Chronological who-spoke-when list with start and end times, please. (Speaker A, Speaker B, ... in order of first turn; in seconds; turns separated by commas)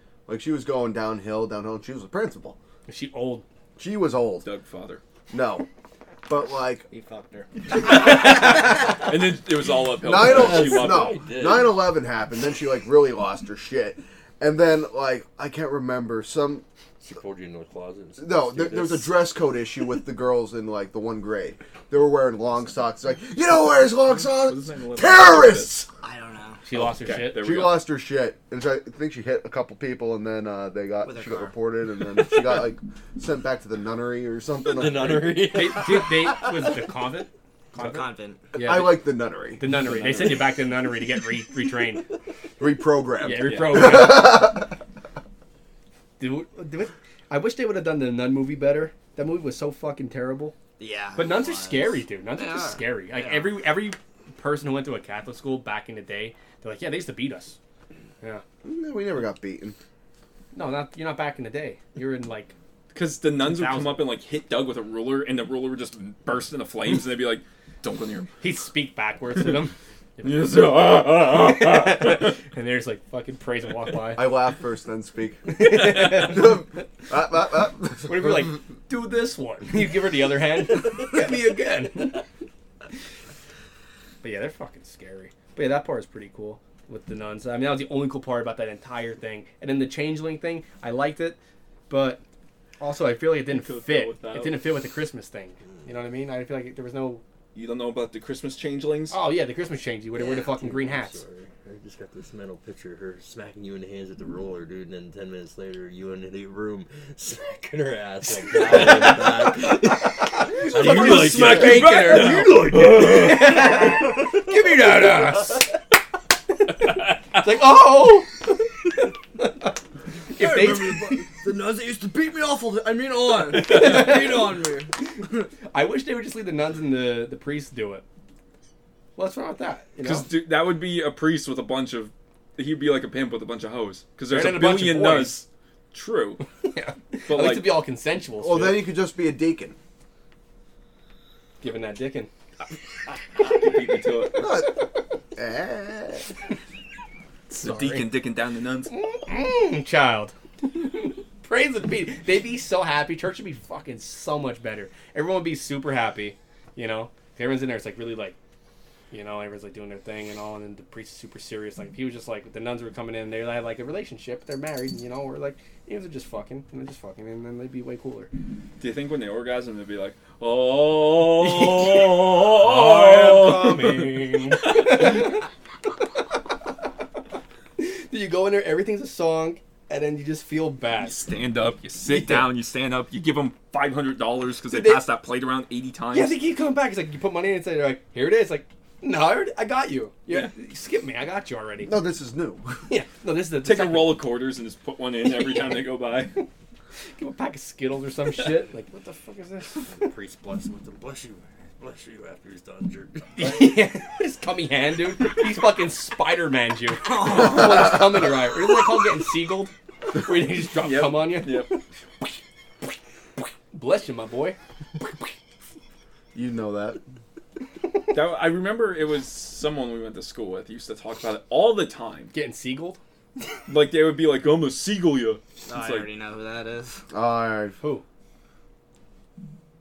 Speaker A: 0.3-2.6, Speaker B: 2.9-3.4, Speaker A: 3.8-4.5, Speaker C: 4.4-5.0, Speaker A: 5.3-5.7, Speaker A: 6.3-6.9, Speaker D: 6.9-7.5, Speaker C: 7.9-11.2, Speaker D: 8.1-8.9, Speaker A: 10.0-16.6, Speaker E: 10.1-11.8, Speaker E: 17.0-19.2, Speaker A: 18.2-25.9, Speaker C: 24.1-25.9, Speaker D: 26.0-26.6, Speaker B: 26.6-27.4, Speaker C: 26.7-27.8, Speaker A: 27.4-35.5, Speaker D: 31.0-31.6, Speaker E: 34.6-36.8, Speaker B: 35.5-42.1, Speaker D: 37.8-38.5, Speaker A: 38.6-39.6, Speaker C: 39.7-40.5, Speaker A: 42.6-44.7, Speaker B: 43.2-44.6, Speaker C: 43.5-44.0, Speaker B: 46.2-50.5, Speaker D: 50.8-53.6, Speaker B: 51.2-57.6, Speaker A: 58.6-59.8, Speaker B: 60.5-62.5, Speaker C: 62.9-68.3, Speaker B: 63.4-64.2, Speaker B: 68.4-74.4, Speaker C: 70.2-72.2, Speaker A: 74.1-78.6, Speaker B: 75.5-76.8, Speaker B: 78.0-82.2, Speaker B: 84.2-91.4, Speaker B: 91.9-92.2, Speaker B: 92.8-97.2, Speaker C: 93.5-94.6, Speaker C: 97.5-99.2, Speaker B: 99.1-101.2, Speaker D: 100.1-100.5, Speaker E: 100.5-112.1, Speaker B: 110.2-115.8, Speaker C: 110.7-113.5, Speaker B: 116.6-119.8, Speaker B: 120.3-121.2, Speaker D: 120.4-124.9, Speaker B: 123.5-124.6, Speaker B: 125.7-128.0, Speaker B: 129.2-130.3, Speaker C: 130.0-136.4, Speaker B: 134.3-135.4, Speaker B: 136.7-138.9, Speaker C: 137.3-137.8, Speaker A: 138.4-139.8, Speaker B: 141.6-142.3, Speaker C: 143.1-144.5, Speaker A: 144.4-146.3, Speaker B: 147.5-148.2, Speaker C: 147.6-148.9, Speaker B: 148.9-158.4, Speaker B: 159.1-168.3, Speaker C: 168.8-175.1, Speaker B: 171.4-175.5, Speaker B: 177.8-181.2, Speaker C: 180.9-186.4, Speaker B: 182.1-182.5, Speaker B: 184.7-185.1, Speaker B: 186.1-192.0, Speaker A: 191.8-192.8, Speaker B: 192.9-194.3, Speaker C: 193.6-196.3, Speaker B: 197.2-200.1, Speaker E: 199.8-203.7, Speaker B: 203.4-211.8, Speaker D: 207.0-207.8, Speaker C: 210.8-211.8, Speaker B: 213.7-214.6, Speaker A: 216.3-217.0, Speaker C: 218.1-222.3, Speaker B: 222.3-223.0, Speaker C: 223.7-226.1, Speaker D: 225.7-227.0, Speaker A: 227.1-227.8